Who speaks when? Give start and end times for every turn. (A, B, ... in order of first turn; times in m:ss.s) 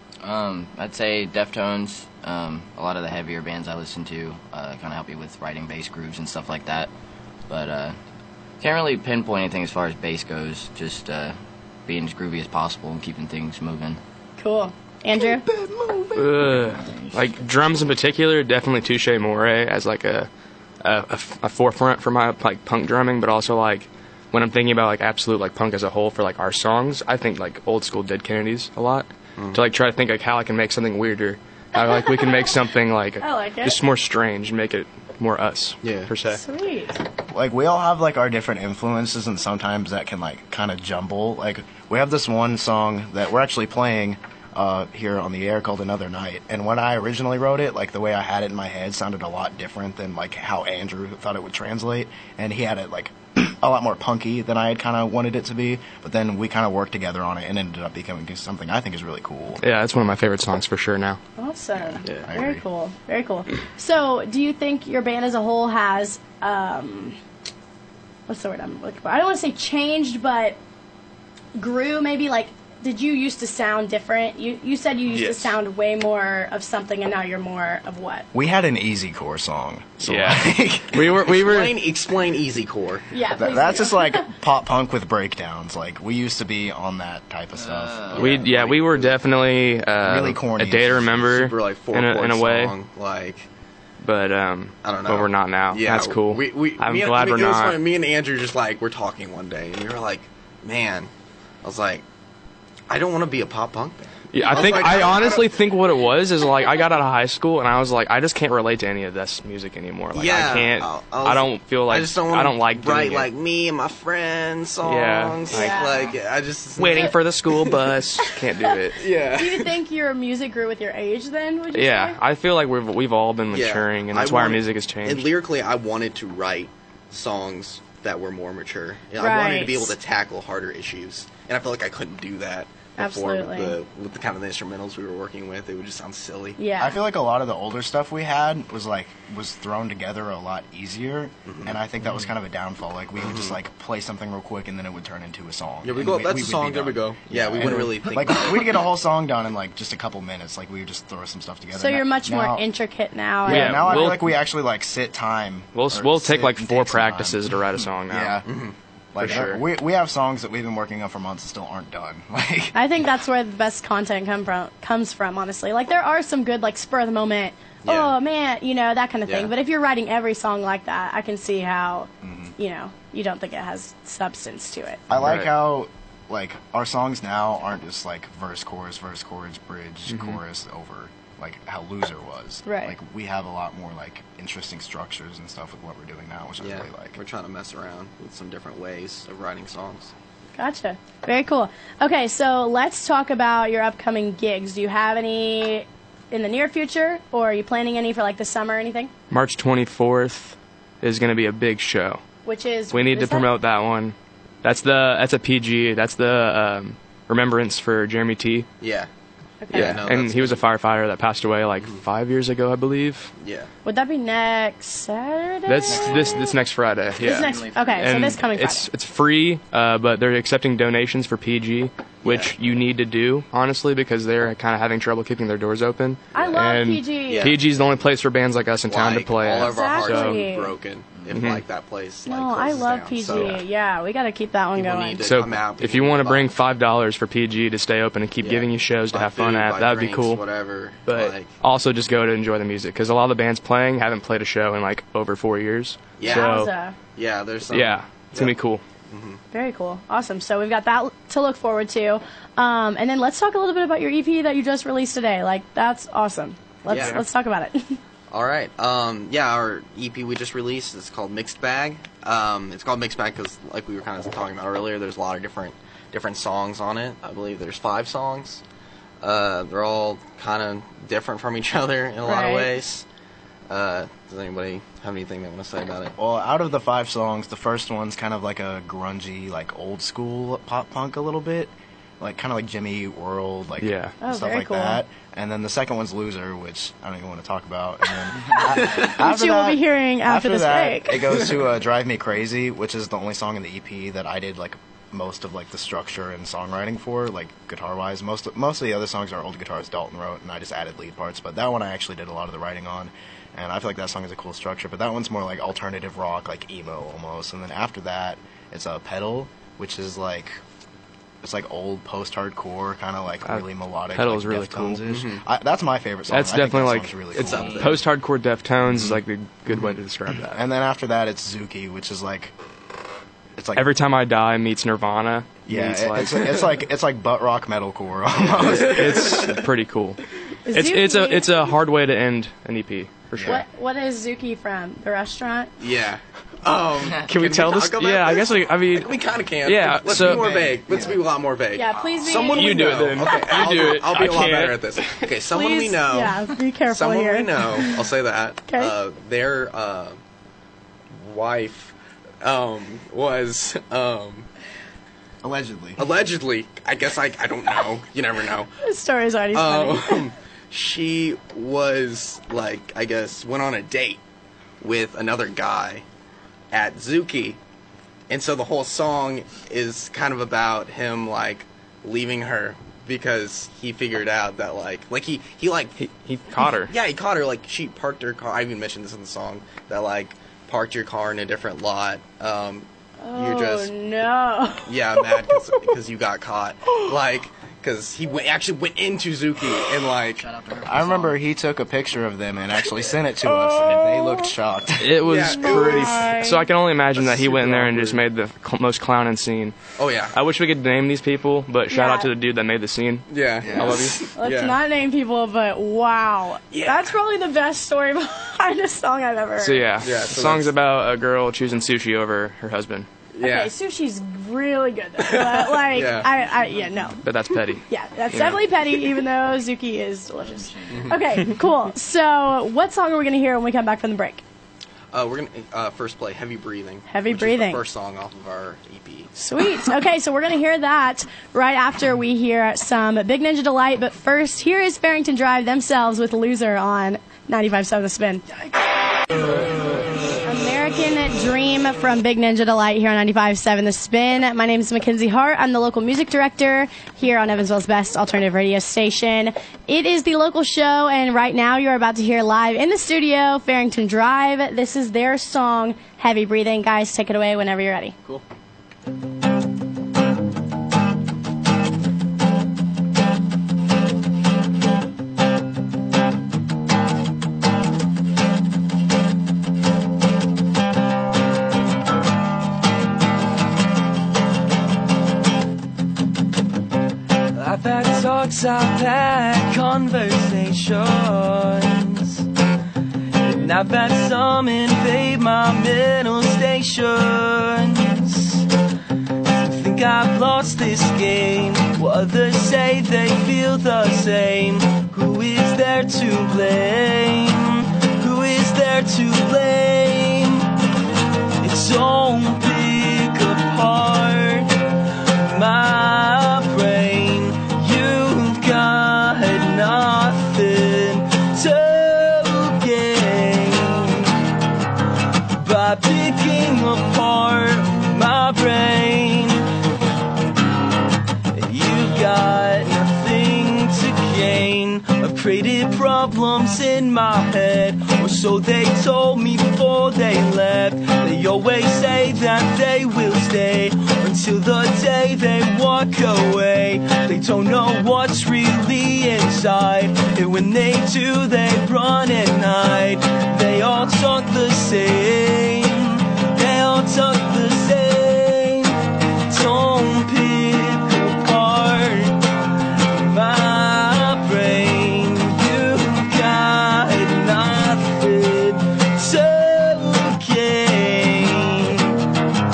0:00.2-0:06.9 A
0:07.5-0:08.0 A
0:08.6-0:14.0 A
0:14.4-0:15.4 B
0:16.2-0:20.3 C
0:16.3-0:17.4 A
0:20.8-0:36.4 C
0:29.4-0:29.6 D
0:31.8-0:32.5 B
0:33.2-0:33.8 B
0:35.8-0:36.1 D
0:36.3-0:37.0 B
0:37.3-0:59.6 E
0:59.6-1:01.2 C
1:01.4-1:07.2 B
1:02.0-1:02.3 D
1:02.1-1:02.6 E
1:08.3-1:10.6 B
1:11.6-1:18.3 B
1:15.1-1:15.5 C
1:18.3-1:21.2 E
1:20.0-1:21.8 C
1:21.2-1:23.1 D
1:23.1-1:24.3 B
1:23.4-1:28.7 E
1:27.6-1:28.3 A
1:28.1-1:29.1 D
1:28.2-1:32.8 C
1:30.0-1:31.3 E
1:31.3-1:33.5 D
1:34.0-1:37.8 C
1:34.8-1:41.1 D
1:41.6-1:42.0 D
1:42.9-1:45.5 D
1:44.3-1:53.3 C
1:50.1-1:57.8 D
1:54.8-1:56.1 C
1:55.5-1:56.1 B
1:56.8-1:59.0 C
1:59.0-1:59.7 D
1:59.3-2:02.2 B
2:01.7-2:05.3 C
2:03.5-2:16.6 D
2:09.2-2:09.9 B
2:13.0-2:13.8 B
2:16.6-2:17.0 B
2:16.8-2:32.7 E
2:21.5-2:21.8 D
2:23.2-2:23.6 D
2:25.8-2:28.8 D
2:31.8-2:34.1 B
2:33.4-2:37.6 E
2:33.5-2:34.4 C
2:35.7-2:38.4 C
2:38.1-2:38.5 E
2:38.4-2:38.7 D
2:39.1-2:42.8 E
2:39.2-2:39.6 C
2:42.7-2:55.0 B
2:47.8-2:48.2 D
2:52.2-2:52.5 E
2:55.1-3:07.2 E
2:55.1-2:55.5 C
3:00.1-3:00.4 C
3:02.6-3:03.0 B
3:06.6-3:10.1 D
3:10.6-3:19.1 B
3:19.3-3:22.2 C
3:22.4-3:23.5 B
3:22.9-3:28.7 C
3:28.8-3:29.1 D
3:29.6-3:30.0 B
3:29.7-3:30.6 D
3:29.7-3:33.3 C
3:33.4-3:33.7 D
3:33.8-3:36.5 B
3:35.7-3:50.4 C
3:35.9-3:36.4 A
3:37.2-3:38.3 A
3:37.2-3:38.9 B
3:42.2-3:42.6 D
3:46.3-3:46.6 D
3:46.3-3:47.5 B
3:47.3-3:47.6 D
3:48.9-3:53.6 D
3:49.6-3:50.7 B
3:51.3-3:51.6 C
3:52.3-3:55.2 B
3:53.3-3:53.6 C
3:54.8-3:56.5 D
3:55.2-4:00.4 C
3:58.4-4:01.5 D
4:01.1-4:06.7 C
4:06.2-4:06.6 D
4:06.2-4:07.0 B
4:07.2-4:08.5 D
4:07.7-4:08.8 C
4:09.1-4:09.4 D
4:09.5-4:18.0 B
4:16.9-4:17.2 D
4:16.9-4:17.2 C
4:18.3-4:28.6 D
4:29.2-4:33.0 D
4:32.2-4:32.7 B
4:33.7-4:36.1 D
4:36.2-5:10.6 E
4:43.8-4:44.1 C
4:44.2-4:45.0 B
4:48.8-4:51.2 B
5:11.4-5:18.0 E
5:13.5-5:15.0 C
5:15.1-5:15.4 D
5:16.3-5:20.6 C
5:17.4-5:18.0 D
5:17.5-5:17.9 A
5:18.9-5:19.2 E
5:20.5-5:22.5 E
5:23.6-5:23.9 E
5:23.8-5:26.6 C
5:25.7-5:29.6 E
5:28.5-5:33.6 C
5:30.7-5:31.7 B
5:33.4-5:33.6 E
5:33.4-5:35.7 B
5:35.8-5:50.2 D
5:37.2-5:40.7 C
5:40.1-5:41.2 E
5:41.7-5:43.3 B
5:42.4-5:45.3 C
5:45.5-5:48.0 B
5:48.7-5:48.9 B
5:51.2-5:54.5 D
5:55.4-5:56.0 E
5:56.0-5:58.7 D
5:58.8-6:00.3 B
5:59.5-6:04.2 D
6:04.8-6:06.0 D
6:06.7-6:07.6 D
6:08.3-6:16.0 D
6:16.0-6:16.9 C
6:16.6-6:23.9 D
6:23.2-6:25.8 B
6:24.9-6:30.4 D
6:30.4-6:31.4 A
6:30.8-6:35.3 E
6:33.5-6:34.5 B
6:35.0-6:39.8 C
6:35.2-6:36.5 D
6:35.6-6:36.6 B
6:37.2-6:38.2 D
6:40.0-6:40.4 D
6:40.3-6:44.2 C
6:41.9-6:42.3 B
6:43.3-6:44.8 D
6:44.3-6:49.9 B
6:46.7-6:47.1 D
6:49.6-6:53.1 C
6:50.0-6:50.7 D
6:53.4-6:53.7 D
6:53.4-6:57.2 B
6:55.2-6:56.3 D
6:57.2-6:58.6 C
6:57.9-7:04.4 B
7:00.4-7:01.2 A
7:05.1-7:09.3 D
7:07.1-7:07.8 B
7:09.4-7:18.5 B
7:20.4-7:38.2 B
7:57.5-8:02.5 F
8:03.4-8:08.7 F
8:09.4-8:20.7 F
8:21.6-8:34.4 F
8:35.5-8:39.7 F
8:41.5-9:09.0 F
9:09.5-9:22.2 F